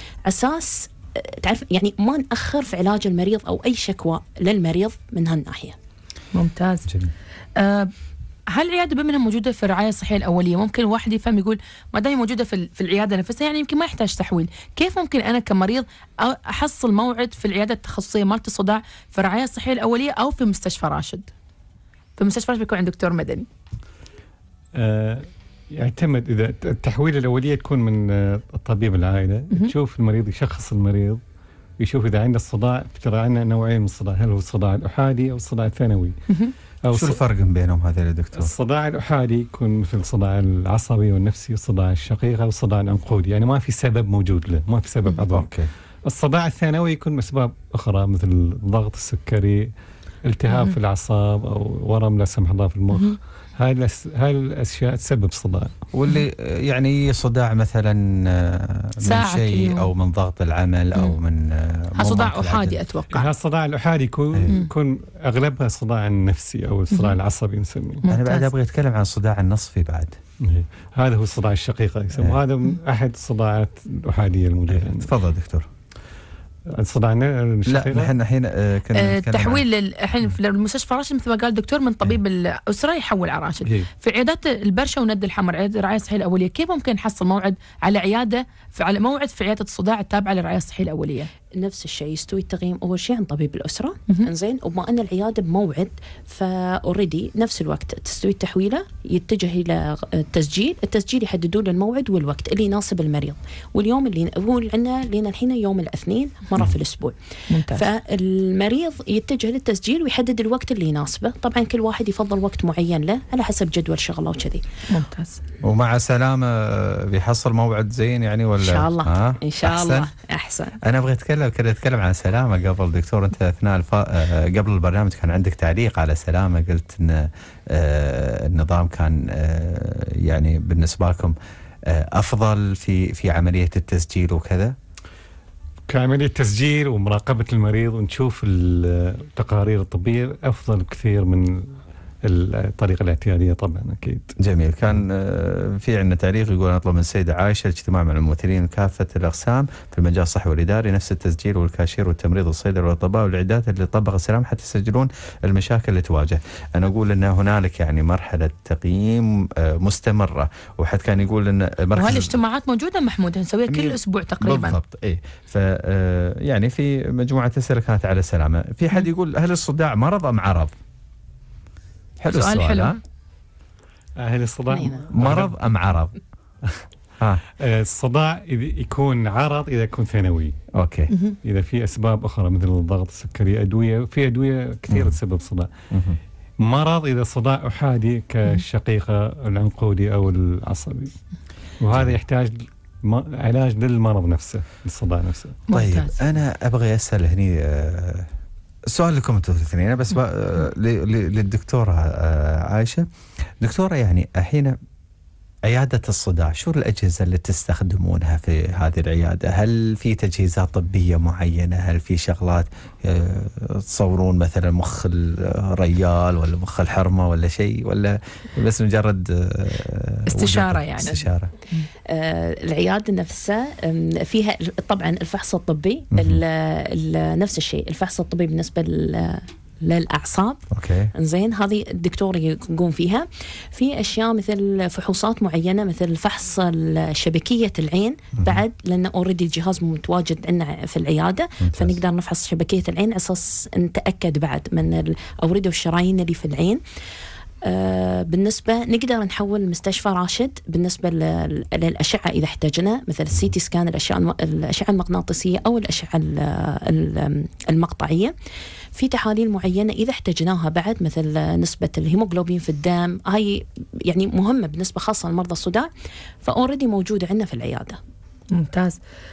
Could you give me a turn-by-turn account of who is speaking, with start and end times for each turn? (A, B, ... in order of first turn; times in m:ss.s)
0:00.3-0:05.8 A
0:06.3-0:06.9 B
0:07.6-0:07.9 B
0:08.5-0:21.3 B
0:22.2-0:23.5 B
0:24.7-0:31.2 C
0:31.8-0:36.2 C
0:36.8-0:37.2 C
0:36.9-0:38.5 D
0:38.3-0:45.5 C
0:45.3-0:45.7 D
0:46.0-0:49.7 C
0:50.2-0:55.7 C
0:50.5-0:50.7 B
0:52.9-0:53.2 B
0:55.9-1:02.8 D
0:59.0-0:59.9 B
1:02.0-1:03.3 B
1:03.1-1:08.0 C
1:06.9-1:07.2 B
1:08.0-1:08.5 B
1:08.1-1:10.2 D
1:10.4-1:15.1 C
1:14.7-1:15.7 D
1:16.7-1:18.1 C
1:17.7-1:19.6 D
1:18.9-1:31.3 B
1:31.5-1:54.6 A
1:47.5-1:47.8 B
1:54.9-1:55.4 B
1:55.6-2:00.1 D
1:58.6-2:00.8 A
2:00.8-2:11.4 D
2:11.9-2:14.8 D
2:15.9-2:24.3 C
2:24.4-2:42.4 D
2:41.9-2:44.8 B
2:43.7-2:50.7 D
2:52.2-2:53.0 D
2:52.3-2:52.9 B
2:54.2-2:55.6 C
2:55.1-2:56.1 D
2:57.6-3:00.6 C
3:00.7-3:01.1 D
3:01.4-3:05.7 C
3:04.9-3:05.2 D
3:05.9-3:06.2 D
3:06.6-3:11.1 C
3:11.8-3:15.6 C
3:15.7-3:16.2 B
3:15.7-3:18.3 D
3:18.9-3:23.1 D
3:23.6-3:24.8 D
3:25.6-3:41.5 D
3:40.3-3:41.2 B
3:42.0-3:50.6 A
3:46.1-3:46.4 D
3:50.7-3:51.1 D
3:51.1-4:06.8 A
3:58.4-3:58.6 D
4:01.6-4:02.0 D
4:07.6-4:18.3 A
4:18.9-4:25.9 A
4:26.4-4:28.0 A
4:28.5-4:29.0 B